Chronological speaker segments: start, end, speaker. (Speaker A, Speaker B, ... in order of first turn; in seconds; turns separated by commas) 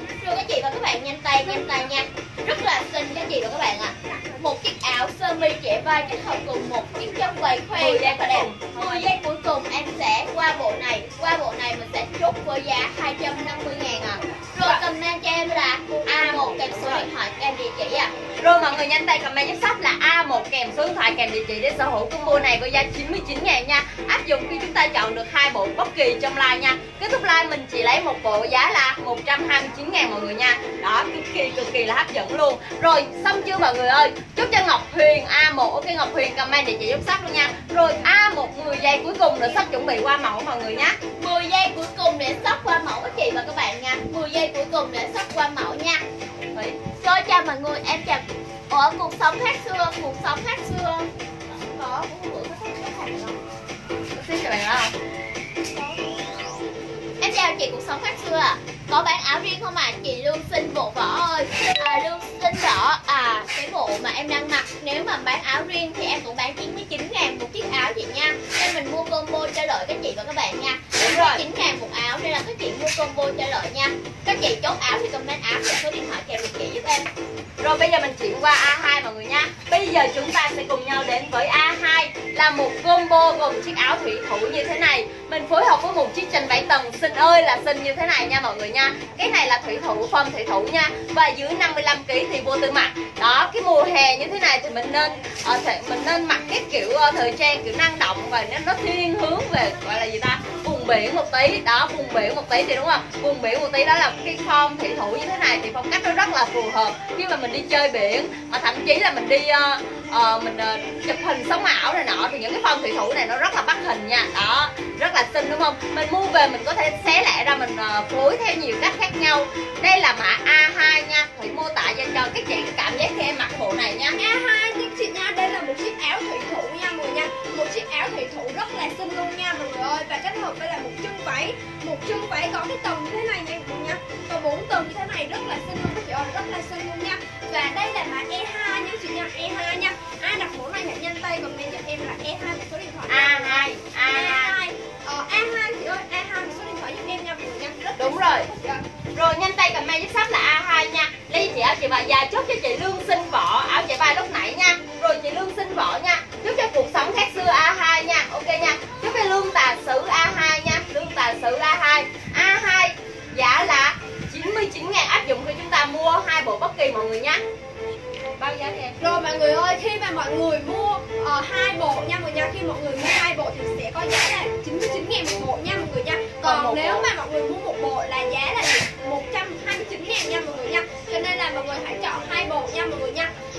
Speaker A: 0.2-18.1, Speaker B: 7.8-9.1, Speaker B: 16.1-17.1, Speaker B: 18.4-41.0, Speaker A: 41.2-46.0, Speaker B: 46.5-46.8, Speaker A: 47.0-53.4, Speaker B: 54.1-54.9, Speaker A: 57.2-77.1, Speaker B: 71.0-71.4, Speaker B: 77.6-124.2, Speaker C: 124.2-148.8, Speaker B: 143.1-144.6, Speaker B: 148.0-148.5, Speaker B: 149.2-167.4, Speaker B: 168.4-169.0, Speaker C: 169.0-183.3, Speaker B: 176.4-177.1